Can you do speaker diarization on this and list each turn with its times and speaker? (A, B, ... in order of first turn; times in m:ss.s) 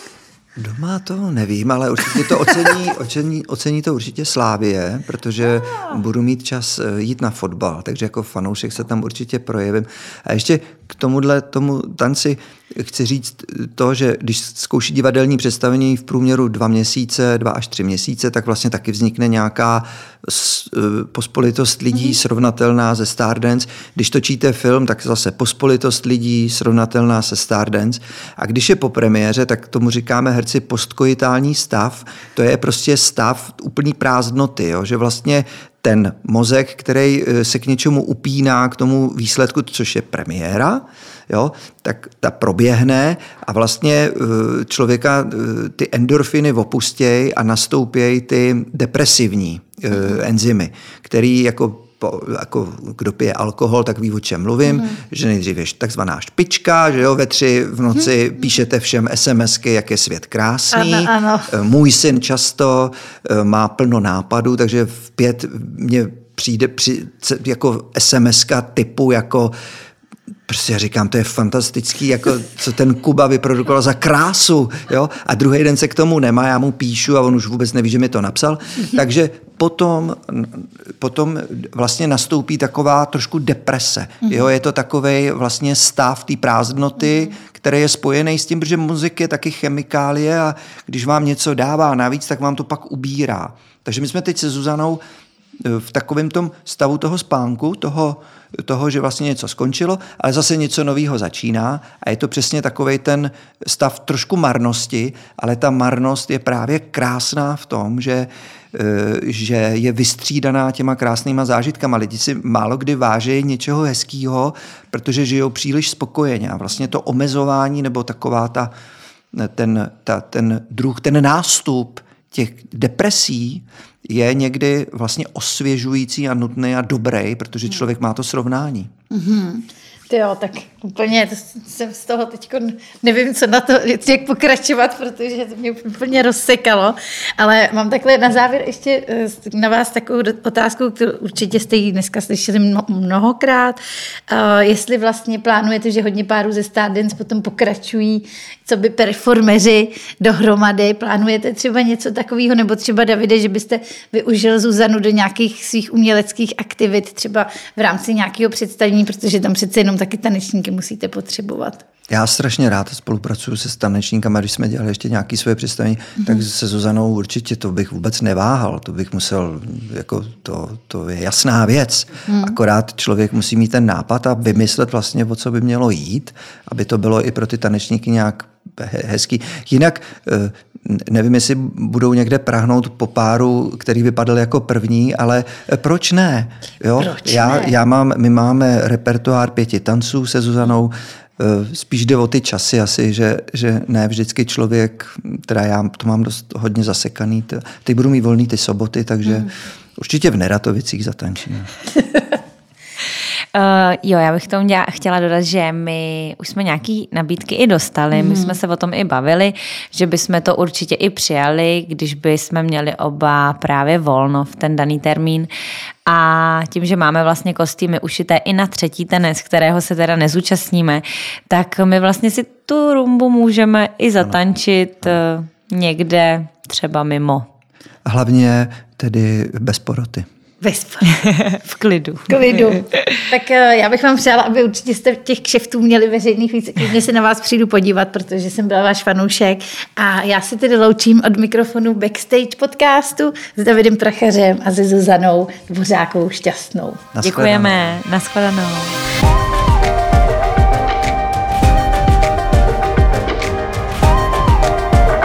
0:00.6-1:09.5 A
1:00.7-1:01.5 B
1:10.5-1:35.0 A
1:35.6-1:58.7 A
1:59.3-2:08.9 A
2:09.1-2:41.8 B
2:42.1-3:21.7 A
2:52.3-2:52.5 B
3:07.0-3:07.7 B
3:23.5-3:35.5 C
3:28.2-3:28.5 B
3:36.0-3:47.4 C
3:48.0-3:50.3 A
3:50.6-3:51.2 B
3:51.0-3:53.2 C
3:52.3-4:07.0 B
4:07.1-4:08.0 A
4:07.2-4:09.0 C